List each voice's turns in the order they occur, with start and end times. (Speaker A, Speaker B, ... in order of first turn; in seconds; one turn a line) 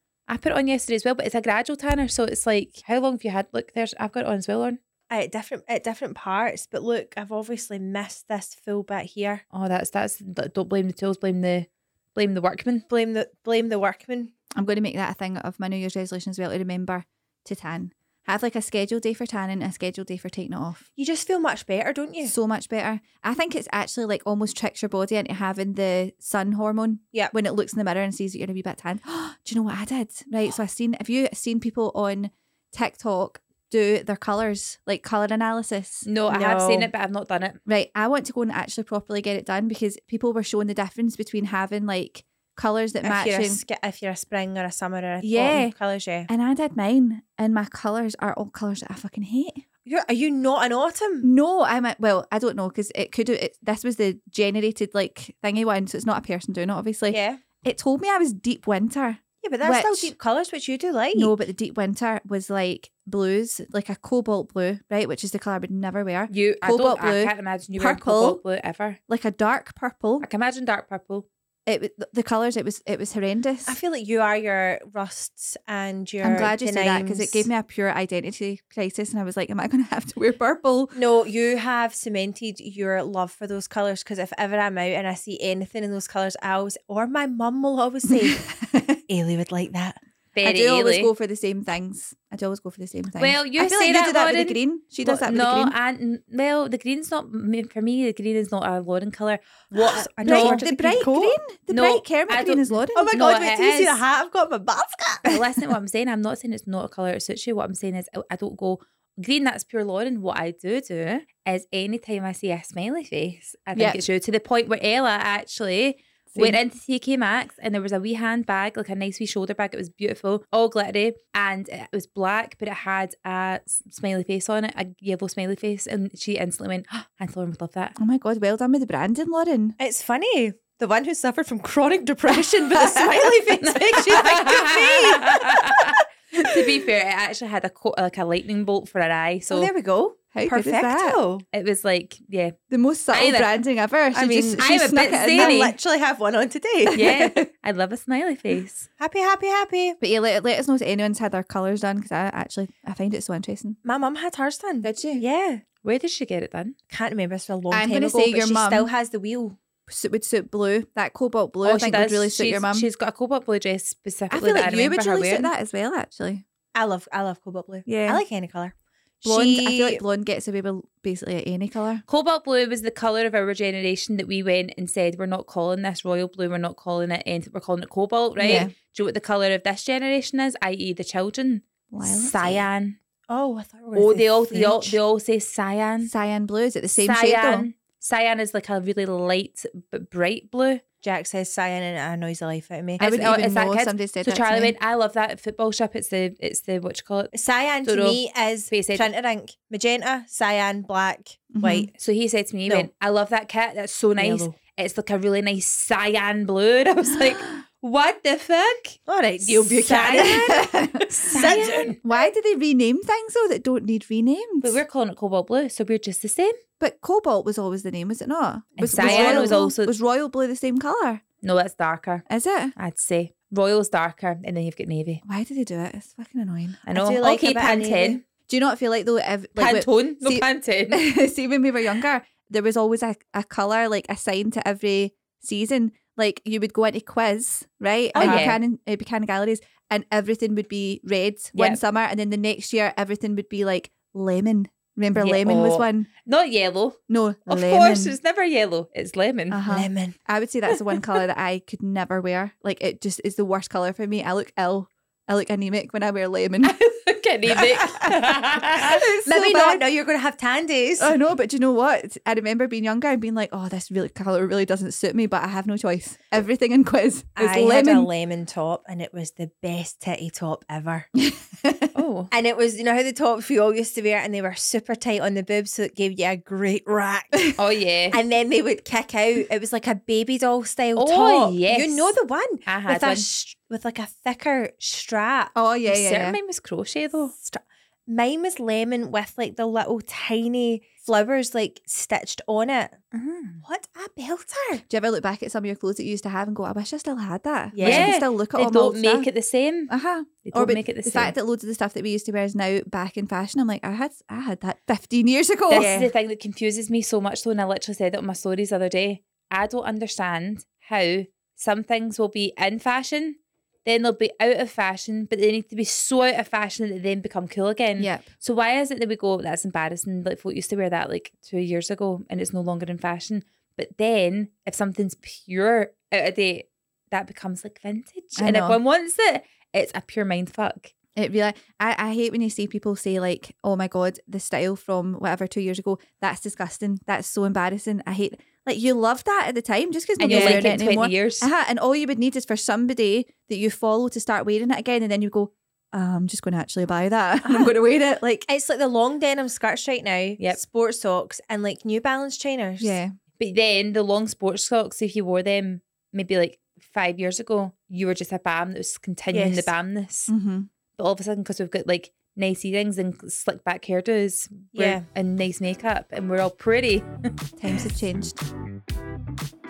Speaker A: 0.3-4.8
Speaker B: 5.1-9.4
Speaker A: 9.5-12.8
Speaker B: 12.9-14.3
Speaker C: 14.5-20.8
Speaker B: 21.0-22.4
Speaker C: 22.2-36.1
Speaker A: 36.0-37.6
Speaker B: 36.3-36.9
Speaker C: 37.7-43.6
Speaker B: 43.0-46.3
Speaker C: 45.2-45.7
Speaker C: 46.3-49.6
Speaker B: 49.9-51.3
Speaker C: 51.2-60.1
Speaker B: 57.1-57.4
Speaker B: 59.4-61.4
Speaker C: 61.1-68.4
Speaker A: 66.3-69.0
Speaker C: 69.1-70.3
Speaker A: 70.2-71.3
Speaker C: 71.7-73.8
Speaker B: 73.7-77.5
Speaker C: 76.2-81.0
Speaker B: 81.0-88.5
Speaker C: 88.1-89.0
Speaker B: 89.1-90.0
Speaker A: 90.3-91.1
Speaker C: 90.4-95.7
Speaker A: 93.2-100.6
Speaker B: 99.7-101.4
Speaker C: 100.2-103.1
Speaker A: 101.7-104.0
Speaker B: 102.9-105.4
Speaker A: 105.2-128.0
Speaker C: 113.8-114.0
Speaker C: 116.3-116.6
Speaker C: 128.0-129.8
Speaker B: 129.8-135.9
Speaker C: 132.4-133.3
Speaker A: 133.6-139.7
Speaker B: 139.5-141.4
Speaker C: 140.3-141.2
Speaker A: 141.5-142.6
Speaker C: 142.7-145.7
Speaker A: 143.1-143.5
Speaker B: 144.1-147.2
Speaker A: 144.6-145.8
Speaker C: 146.9-147.5
Speaker A: 146.9-148.9
Speaker B: 149.0-150.0
Speaker C: 150.0-153.8
Speaker B: 153.8-155.6
Speaker C: 154.8-155.2
Speaker A: 155.8-156.8
Speaker B: 156.9-159.6
Speaker C: 157.7-158.9
Speaker C: 159.9-162.9
Speaker A: 161.6-165.5
Speaker C: 164.3-166.4
Speaker B: 166.7-170.0
Speaker C: 167.9-168.2
Speaker C: 169.2-172.0
Speaker A: 172.1-183.0
Speaker C: 178.4-178.7
Speaker C: 181.9-182.6
Speaker B: 183.3-185.0
Speaker A: 183.9-186.1
Speaker C: 186.0-187.7
Speaker A: 187.0-190.8
Speaker B: 191.0-193.1
Speaker C: 193.0-194.8
Speaker A: 193.0-197.3
Speaker B: 197.3-201.9
Speaker A: 197.8-199.1
Speaker C: 201.5-201.9
Speaker A: 202.0-210.6
Speaker B: 204.2-204.6
Speaker B: 209.1-212.0
Speaker C: 210.2-211.4
Speaker A: 211.2-212.0
Speaker C: 212.0-214.8
Speaker A: 214.6-216.6
Speaker C: 216.8-221.2
Speaker A: 218.8-220.0
Speaker B: 219.0-219.6
Speaker A: 221.4-222.2
Speaker C: 222.3-222.8
Speaker A: 222.8-225.2
Speaker C: 225.2-226.8
Speaker A: 226.9-228.2
Speaker B: 226.9-228.2
Speaker C: 228.5-246.1
Speaker A: 229.6-231.1
Speaker B: 238.1-238.5
Speaker A: 238.2-238.6
Speaker A: 241.6-241.8
Speaker A: 245.2-249.6
Speaker C: 247.1-248.2
Speaker C: 249.5-256.8
Speaker B: 249.7-250.2
Speaker A: 256.6-259.1
Speaker C: 257.5-259.8
Speaker B: 259.2-261.2
Speaker C: 261.0-268.1
Speaker B: 267.4-271.1
Speaker C: 271.1-271.9
Speaker A: 271.9-272.3
Speaker B: 272.3-277.5
Speaker A: 277.6-278.2
Speaker B: 278.1-285.5
Speaker A: 281.0-282.1
Speaker A: 282.7-283.3
Speaker C: 285.6-286.4
Speaker A: 285.9-287.3
Speaker B: 287.4-293.0
Speaker A: 293.1-293.6
Speaker B: 293.6-294.8
Speaker C: 294.9-299.3
Speaker B: 297.7-298.3
Speaker A: 297.8-299.9
Speaker C: 299.9-306.1
Speaker A: 300.4-301.3
Speaker A: 305.7-330.9
Speaker B: 305.7-306.1
Speaker C: 318.0-318.3
Speaker C: 328.4-328.8
Speaker C: 331.2-348.5
Speaker A: 340.2-341.5
Speaker B: 340.2-340.7
Speaker B: 347.4-347.7
Speaker B: 348.5-353.0
Speaker C: 352.8-353.1
Speaker A: 353.4-360.3
Speaker B: 359.3-359.7
Speaker C: 360.3-360.7
Speaker A: 360.9-367.3
Speaker B: 364.8-365.0
Speaker C: 367.6-368.4